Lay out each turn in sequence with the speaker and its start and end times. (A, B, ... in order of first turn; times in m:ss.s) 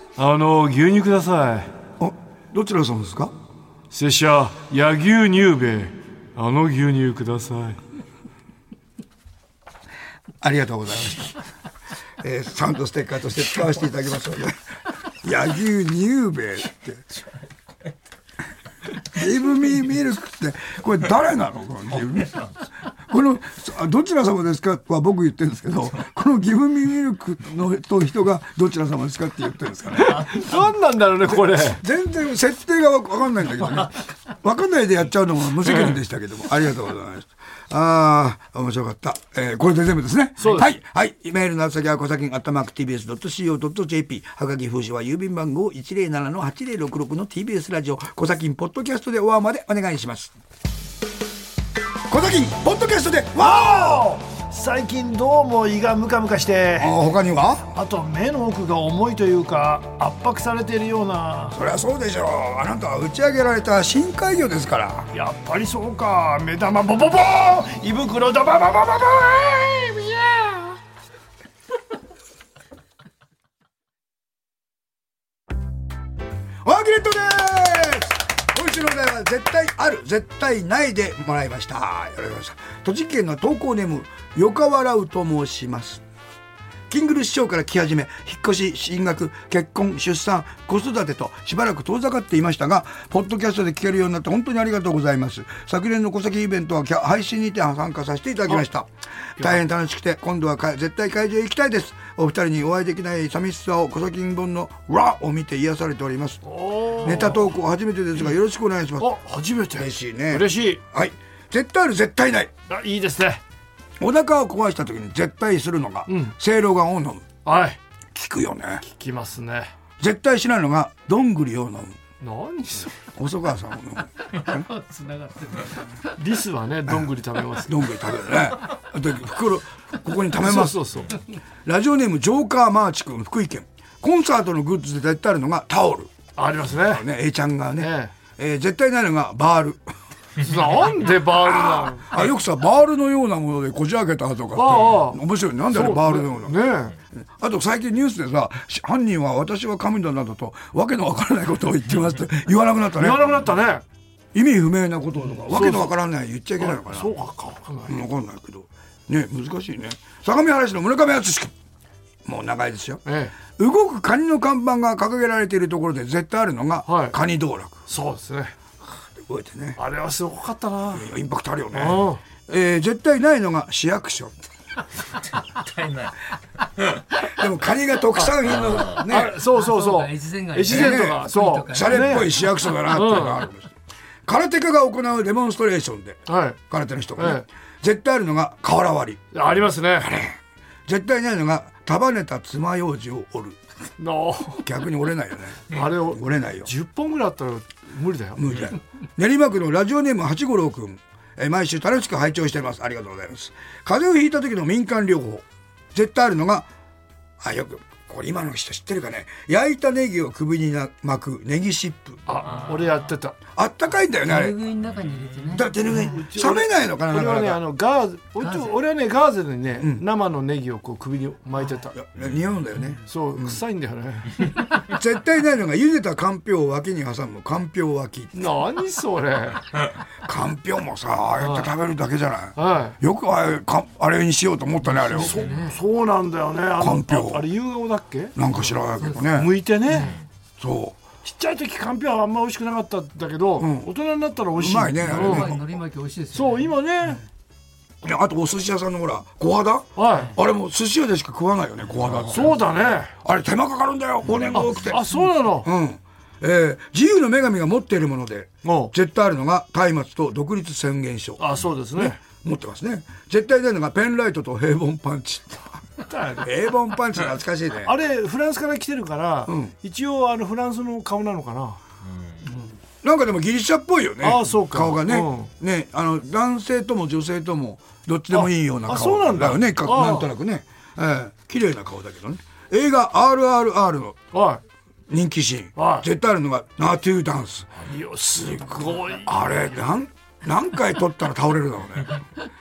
0:00.2-0:01.7 A
0:02.0-0:03.3 B
0:03.9-0:07.8 A
0:10.4-0:11.4 B
0:12.2-0:14.6 B
0:15.2-0:17.0 B
0:19.1-0:22.4 B
0:23.1-0:30.4 B
0:29.9-0:31.8 A
0:31.3-0:50.3 B
0:40.4-0:40.7 A
0:52.1-0:54.1 B
0:53.4-0:56.9 A
0:56.8-0:57.7 B
0:57.7-1:01.6 A
1:01.5-1:05.1 B
1:05.1-1:10.8 A
1:16.6-1:26.0 B
1:26.9-1:46.4 B
1:46.4-1:47.5 A
1:47.0-1:49.1 B
1:49.0-1:50.8 A
1:49.7-1:52.5 B
1:52.7-1:53.4 A
1:54.0-1:57.2 B
1:56.1-1:56.3 A
1:57.4-1:57.8 A
1:58.1-1:58.8 B
1:58.8-1:59.7 A
2:00.0-2:02.0 B
2:02.2-2:02.9 A
2:03.2-2:04.6 B
2:04.4-2:06.0 C
2:06.2-2:07.8 A
2:07.6-2:10.9 B
2:10.4-2:11.1 A
2:11.6-2:16.1 B
2:16.4-2:17.0 A
2:16.8-2:19.9 B
2:17.8-2:18.1 A
2:20.4-2:22.1 A
2:21.4-2:33.3 B
2:24.5-2:27.0 A
2:33.0-2:33.8 A
2:34.3-2:37.1 B
2:35.4-2:35.9 A
2:36.6-2:38.0 A
2:37.9-2:41.5 B
2:42.2-2:47.8 B
2:43.0-2:43.4 A
2:46.8-2:47.2 A
2:47.9-2:48.5 A
2:49.1-2:49.8 B
2:49.8-2:51.1 A
2:50.9-2:54.3 B
2:51.7-2:52.2 A
2:55.3-2:56.2 D
2:57.3-2:59.4 B
2:58.6-2:59.0 D
2:59.0-3:03.4 A
2:59.4-3:02.4 C
3:00.7-3:03.7 B
3:04.2-3:09.2 B
3:06.3-3:06.6 A
3:07.2-3:07.4 A
3:09.3-3:10.1 A
3:10.0-3:13.6 B
3:14.0-3:14.6 A
3:14.6-3:16.7 B
3:15.7-3:18.7 A
3:18.4-3:26.7 B
3:27.4-3:32.2 B
3:32.3-3:33.4 A
3:33.5-3:34.6 B
3:34.2-3:36.2 C
3:34.9-3:35.6 D
3:35.5-3:37.6 B
3:36.0-3:42.0 A
3:38.4-3:38.7 C
3:39.8-3:40.0 B
3:41.9-3:43.6 B
3:43.0-3:44.5 A
3:44.8-3:48.5 B
3:48.3-3:49.6 A
3:50.2-3:55.4 B
3:51.4-3:51.7 A
3:52.6-3:53.0 A
3:55.0-3:58.7 A
3:55.1-3:55.7 C
3:56.8-3:57.5 B
3:58.3-3:59.6 B
3:59.0-3:59.2 C
3:59.2-4:00.2 A
4:00.6-4:01.0 B
4:01.2-4:05.5 A
4:03.6-4:03.9 B
4:04.6-4:05.6 B
4:05.0-4:06.7 C
4:06.3-4:07.2 A
4:08.0-4:12.6 B
4:10.0-4:10.3 A
4:12.3-4:13.1 A
4:13.2-4:21.4 B
4:14.5-4:15.7 A
4:18.6-4:18.9 A
4:21.4-4:22.2 A
4:22.0-4:25.8 B
4:26.1-4:26.5 A
4:26.4-4:27.9 B
4:27.8-4:31.8 A
4:29.5-4:29.7 B
4:32.0-4:32.5 D
4:33.0-4:44.2 B
4:34.2-4:35.5 A
4:38.3-4:40.3 A
4:44.3-4:44.6 A
4:45.1-4:47.8 B
4:45.8-4:46.1 A
4:47.8-4:49.5 A
4:49.2-4:52.2 B